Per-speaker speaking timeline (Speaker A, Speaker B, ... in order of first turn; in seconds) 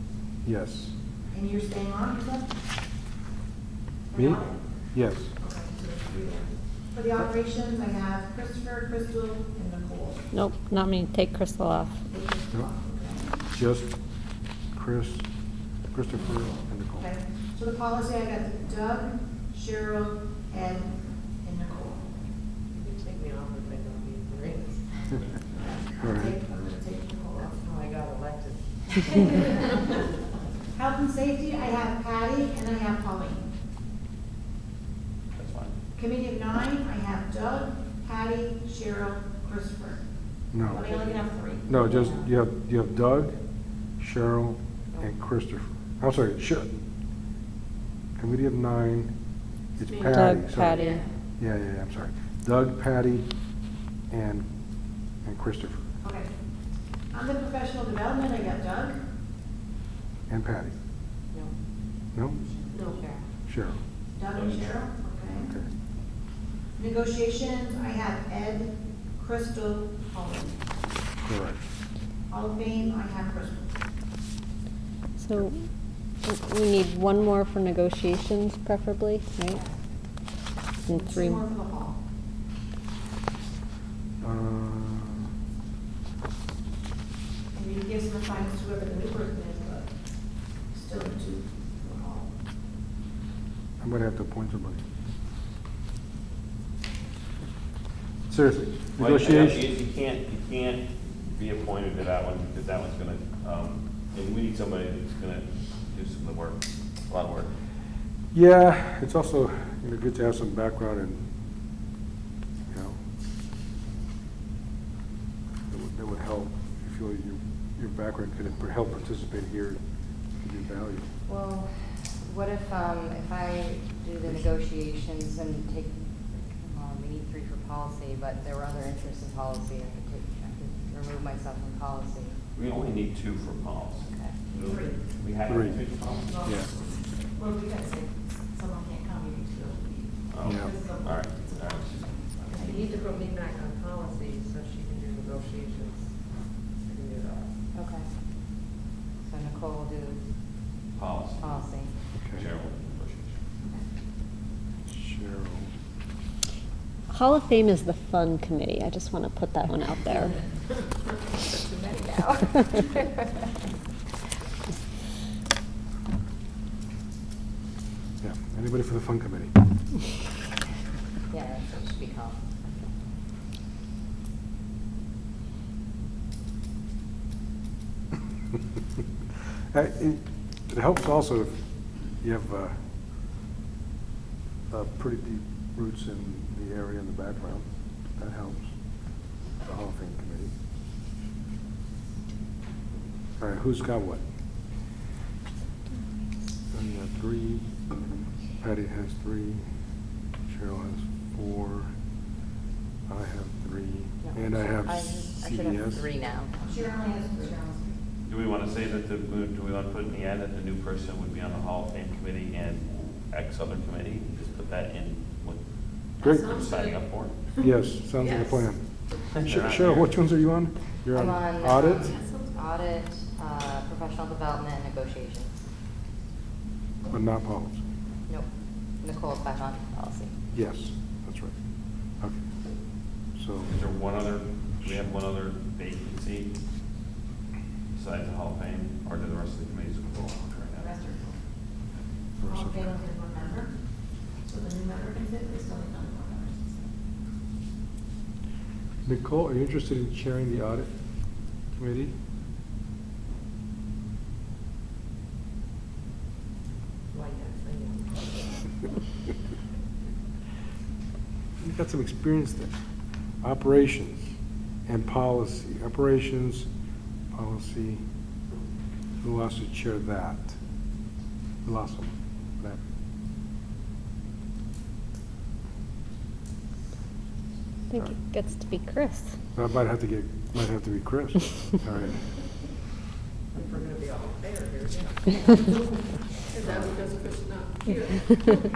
Speaker A: 0.5-0.9, 4.1-5.3, 13.5-14.0, 14.8-15.3, 15.9-17.1, 26.0-26.4, 40.5-40.9, 41.7-43.4, 44.0-46.7, 48.2-49.1, 49.8-50.9, 51.4-53.3, 54.1-54.5, 55.2-55.9, 60.3-60.7, 63.5-63.8, 71.2-71.6, 84.2-85.3, 93.8-94.8, 98.3-99.7, 108.3-111.2, 112.7-113.0, 115.7-119.8, 120.4-121.1, 135.5-135.8, 140.4-140.8, 154.9-155.7, 168.2-169.7, 179.7-181.6, 182.2-182.8, 184.7-187.7, 188.2-188.7, 189.6-190.5, 193.4-194.2, 196.7-197.7, 198.6-199.6, 200.5-201.9, 203.1-206.1, 216.2-216.6, 217.6-222.2, 227.1-227.8, 230.5-231.5, 233.3-233.7, 242.4-243.0, 249.1-250.9, 251.8-252.1, 261.6-262.8, 263.4-264.3, 264.9-266.7, 267.3-268.0, 269.2-270.6, 271.6-272.8, 279.6-282.2, 286.6-287.0
Speaker B: 1.3-2.5, 4.1-4.5, 5.5-6.4, 6.9-10.3, 12.1-13.3, 17.1-22.0, 25.7-27.4, 30.7-33.5, 36.0-40.0, 40.6-41.6, 57.1-59.0, 64.2-65.5, 66.8-70.5, 72.3-73.7, 81.0-82.0, 87.5-89.9, 90.7-92.3, 206.8-207.6
Speaker C: 10.3-12.0, 50.0-51.0, 75.2-75.7, 76.2-79.6, 80.9-81.5, 157.1-160.4, 277.9-279.4
Speaker D: 22.7-24.9, 27.4-29.6, 49.9-51.0, 62.7-63.0, 142.5-146.1, 146.8-147.5, 257.1-258.2, 283.5-285.6, 286.5-288.6
Speaker E: 35.4-35.8, 64.3-64.8, 99.0-107.5, 132.6-136.5, 140.3-142.3, 151.0-151.7, 152.4-153.3, 208.3-215.6, 216.2-217.4, 219.4-220.1, 233.7-236.5, 237.9-241.1
Speaker F: 62.9-63.2, 121.3-126.0, 126.6-132.4, 134.1-134.4, 147.7-148.1, 149.2-150.2, 151.4-151.9, 162.0-162.2, 171.3-172.4, 204.2-206.6, 221.1-225.5, 229.0-230.3